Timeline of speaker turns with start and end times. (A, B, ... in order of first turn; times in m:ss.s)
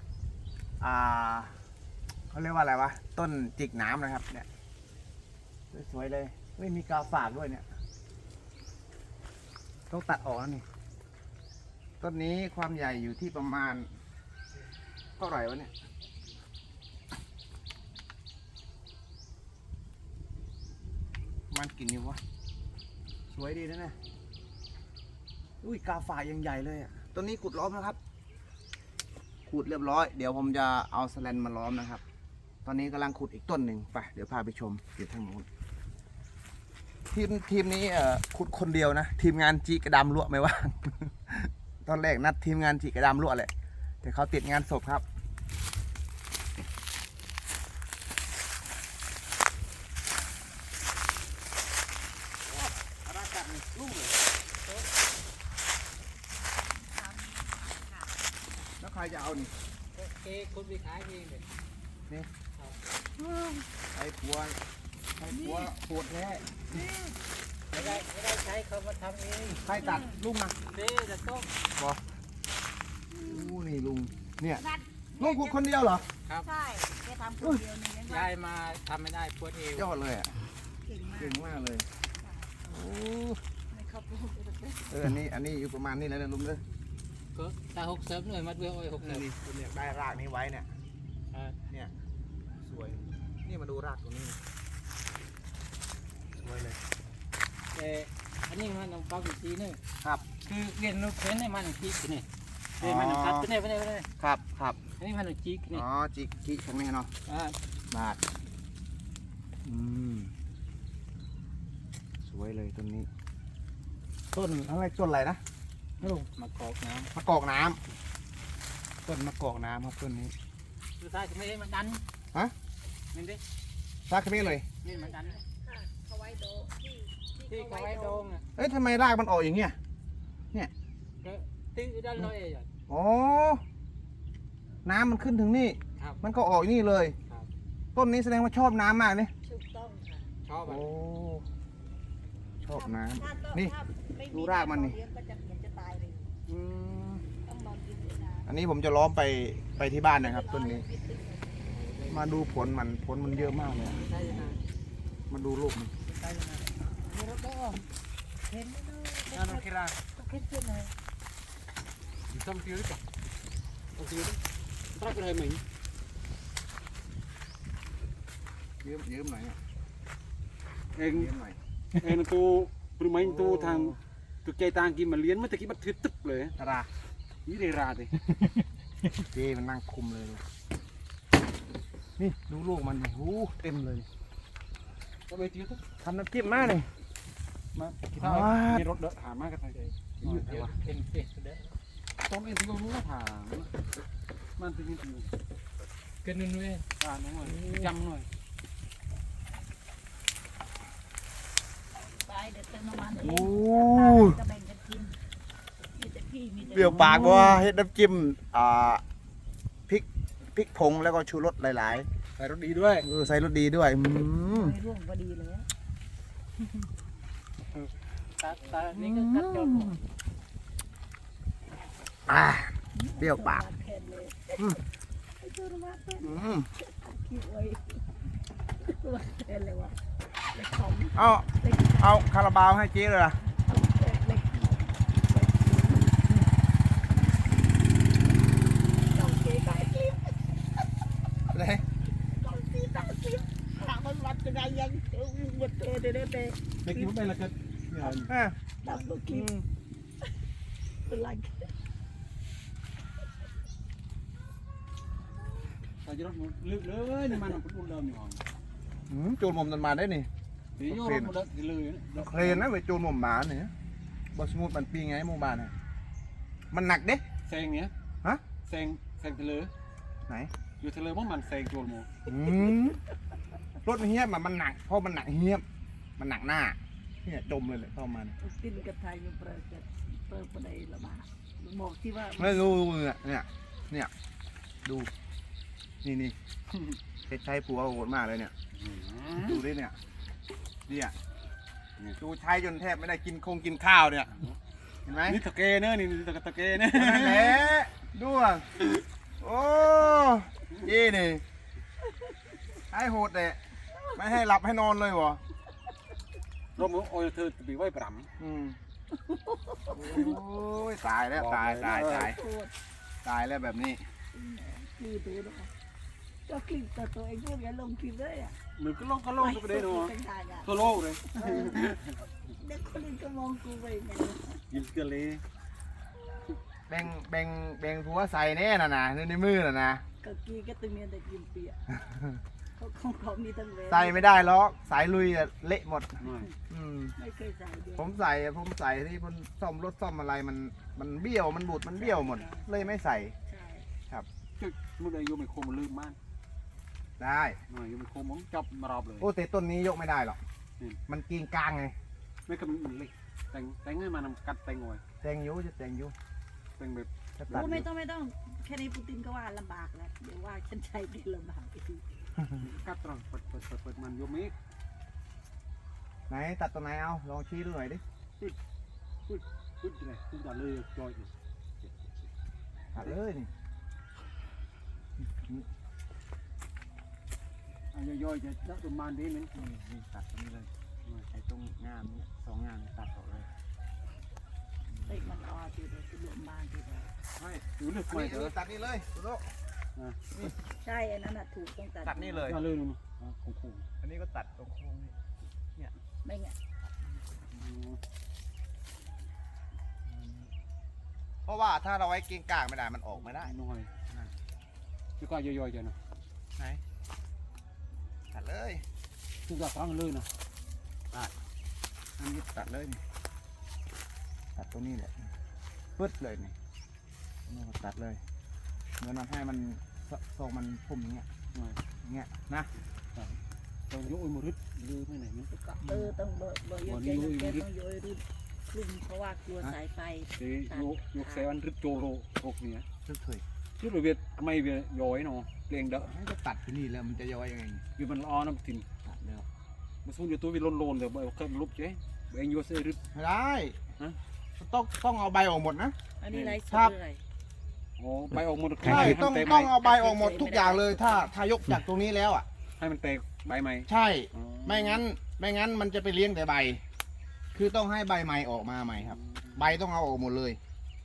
0:00.8-0:01.5 A
0:02.3-0:04.5 A
0:05.7-0:07.6 A
0:09.9-0:10.6 A
0:12.0-0:13.9 A
0:15.2-0:15.7 A
0:21.5-0:22.2 A
0:23.3-0:24.0 A
0:25.6-0:28.0 A
0:29.5-0:32.0 A
0:32.6-0:35.4 A
0:37.1-0:45.0 A
0:52.5-0:54.1 B
0:56.8-0:58.1 C
0:58.8-0:59.5 A
0:59.9-1:01.4 D
1:03.2-1:04.6 A
1:05.2-1:06.8 A
1:05.3-1:05.7 C
1:06.7-1:07.1 C
1:07.7-1:09.8 D
1:07.7-1:08.0 C
1:09.6-1:10.6 A
1:09.8-1:10.2 C
1:10.7-1:11.5 D
1:11.8-1:12.0 A
1:13.1-1:13.6 C
1:13.2-1:14.6 A
1:14.6-1:15.8 C
1:15.2-1:16.1 A
1:16.4-1:18.3 C
1:18.0-1:19.9 D
1:19.7-1:20.4 A
1:20.8-1:21.6 C
1:21.2-1:21.8 A
1:22.2-1:22.6 C
1:22.7-1:23.4 A
1:23.7-1:24.9 C
1:24.9-1:26.6 A
1:27.3-1:29.2 D
1:29.0-1:30.7 A
1:31.3-1:31.6 D
1:32.6-1:34.4 A
1:36.4-1:36.8 A
1:37.7-1:39.8 D
1:40.3-1:42.3 D
1:42.8-1:43.5 A
1:42.8-1:44.1 D
1:44.2-1:44.8 A
1:45.0-1:45.8 D
1:45.7-1:47.1 A
1:47.3-1:47.6 D
1:47.9-1:48.2 A
1:49.6-1:50.3 A
1:52.2-1:53.1 A
1:54.3-1:55.4 A
1:56.0-1:56.3 A
1:56.0-1:57.1 D
1:57.1-1:57.8 A
1:59.0-2:00.3 A
2:01.0-2:02.0 D
2:03.1-2:03.4 D
2:04.1-2:04.6 A
2:04.4-2:05.4 D
2:04.8-2:08.4 C
2:07.5-2:08.4 D
2:08.6-2:09.8 A
2:11.2-2:12.7 D
2:12.9-2:13.6 A
2:14.8-2:17.2 A
2:17.9-2:19.3 A
2:19.4-2:20.3 C
2:20.5-2:20.8 B
2:20.5-2:20.8 D
2:20.6-2:21.4 A
2:22.6-2:23.7 A
2:22.7-2:26.3 C
2:24.3-2:25.0 A
2:26.5-2:27.2 A
2:27.4-2:28.5 C
2:28.4-2:30.8 A
2:30.1-2:31.7 C
2:31.7-2:32.1 B
2:32.1-2:34.0 A
2:33.3-2:34.6 C
2:34.0-2:34.6 D
2:35.3-2:35.9 A
2:36.0-2:37.8 D
2:38.5-2:39.6 D
2:38.8-2:39.2 C
2:39.3-2:39.9 B
2:40.2-2:40.9 C
2:42.3-2:43.0 B
2:44.0-2:44.4 B
2:44.9-2:45.6 B
2:48.8-2:49.6 A
2:51.0-2:51.3 B
2:51.1-2:51.6 A
2:52.0-2:56.5 B
2:53.2-2:54.0 A
2:56.6-2:56.9 A
2:57.4-2:58.4 B
2:59.3-3:00.4 A
3:02.2-3:04.1 A
3:05.3-3:05.8 B
3:06.0-3:06.9 A
3:07.7-3:10.8 B
3:08.2-3:08.8 A
3:10.2-3:10.7 A
3:10.4-3:11.7 D
3:12.2-3:13.7 B
3:14.6-3:15.3 B
3:16.2-3:16.9 D
3:17.0-3:18.3 B
3:17.4-3:17.9 A
3:22.1-3:25.2 C
3:23.2-3:24.4 A
3:25.9-3:27.6 C
3:26.7-3:29.0 A
3:29.9-3:32.1 A
3:32.4-3:33.1 B
3:33.0-3:34.7 A
3:34.5-3:35.7 C
3:38.0-3:40.0 D
3:38.9-3:40.0 A
3:42.3-3:43.6 A
3:42.9-3:44.8 C
3:45.4-3:48.0 C
3:46.2-3:46.7 A
3:48.8-3:50.0 C
3:50.5-3:52.3 C
3:51.1-3:53.4 A
3:53.5-3:56.3 C
3:59.0-4:00.7 C
4:01.5-4:01.8 A
4:02.2-4:07.1 C
4:06.8-4:08.3 B
4:08.0-4:09.6 A
4:08.8-4:09.5 C
4:11.0-4:11.7 C
4:16.0-4:18.4 B
4:19.1-4:20.3 A
4:20.8-4:22.7 B
4:20.8-4:21.3 A
4:22.1-4:23.7 A
4:24.3-4:25.7 A
4:26.7-4:27.2 A
4:27.4-4:27.9 B
4:28.6-4:29.7 B
4:30.3-4:30.5 A
4:30.8-4:32.2 B
4:32.3-4:33.0 A
4:33.8-4:35.6 A
4:36.2-4:38.3 A
4:38.4-4:42.7 C
4:42.4-4:44.1 A
4:44.8-4:45.1 A
4:46.0-4:46.3 A
4:47.3-4:48.5 A
4:48.7-4:49.6 B
4:49.3-4:50.0 A
4:50.9-4:51.1 A
4:52.2-4:54.3 A
4:55.0-4:55.4 A
4:55.2-4:57.7 B
4:56.9-4:58.7 A
4:59.4-5:01.4 A
5:02.9-5:03.6 A
5:04.1-5:05.4 A
5:06.8-5:08.3 B
5:08.4-5:08.8 A
5:09.1-5:10.4 C
5:09.9-5:12.4 A
5:11.3-5:12.3 B
5:12.1-5:12.7 C
5:13.2-5:14.0 A
5:14.3-5:15.7 C
5:16.4-5:18.6 C
5:18.8-5:20.1 B
5:19.4-5:21.9 C
5:20.6-5:22.2 B
5:22.5-5:24.6 C
5:24.7-5:25.4 B
5:26.9-5:30.0 A
5:30.2-5:31.8 C
5:32.1-5:32.4 A
5:32.8-5:34.4 C
5:33.9-5:37.1 A
5:36.2-5:36.5 B
5:37.2-5:38.1 C
5:38.0-5:43.3 A
5:41.9-5:43.9 C
5:44.6-5:46.2 B
5:47.2-5:47.6 A
5:47.7-5:49.3 B
5:49.2-5:50.4 A
5:51.1-5:51.9 A
5:52.5-5:55.0 B
5:55.2-5:56.1 A
5:56.8-5:57.1 B
5:57.4-5:57.8 A
5:57.5-6:02.0 C
6:02.6-6:04.5 B
6:06.3-6:08.0 A
6:09.3-6:12.2 B
6:12.9-6:13.5 A
6:15.2-6:15.6 A
6:17.9-6:19.6 B
6:19.5-6:20.7 A
6:21.3-6:23.5 A
6:25.0-6:27.1 C
6:27.4-6:29.5 A
6:27.8-6:28.5 B
6:30.8-6:32.5 C
6:32.0-6:32.6 A
6:32.4-6:33.8 B
6:34.0-6:35.1 A
6:36.2-6:36.6 C
6:37.6-6:38.0 B
6:40.0-6:40.5 A
6:41.4-6:43.5 A
6:43.3-6:43.9 B
6:45.2-6:46.0 B
6:46.6-6:46.8 A
6:48.3-6:48.8 A
6:49.4-6:50.3 B
6:52.2-6:53.0 A
6:54.6-6:55.3 A
6:56.0-6:56.5 A
6:57.5-6:58.2 A
6:59.0-7:01.3 A
7:01.5-7:01.8 B
7:02.0-7:02.7 A
7:03.9-7:05.5 B
7:05.5-7:11.5 C
7:05.8-7:06.1 A
7:06.8-7:07.6 B
7:10.4-7:12.8 B
7:13.0-7:13.4 A
7:13.8-7:16.1 B
7:16.0-7:17.8 A
7:18.0-7:18.8 B
7:19.0-7:19.4 A
7:20.0-7:23.0 B
7:23.1-7:23.8 A
7:24.6-7:26.9 A
7:26.2-7:27.2 C
7:28.0-7:29.7 B
7:28.8-7:32.4 A
7:29.7-7:31.3 C
7:32.8-7:35.0 B
7:33.9-7:36.8 A
7:37.5-7:40.6 A
7:39.0-7:39.8 B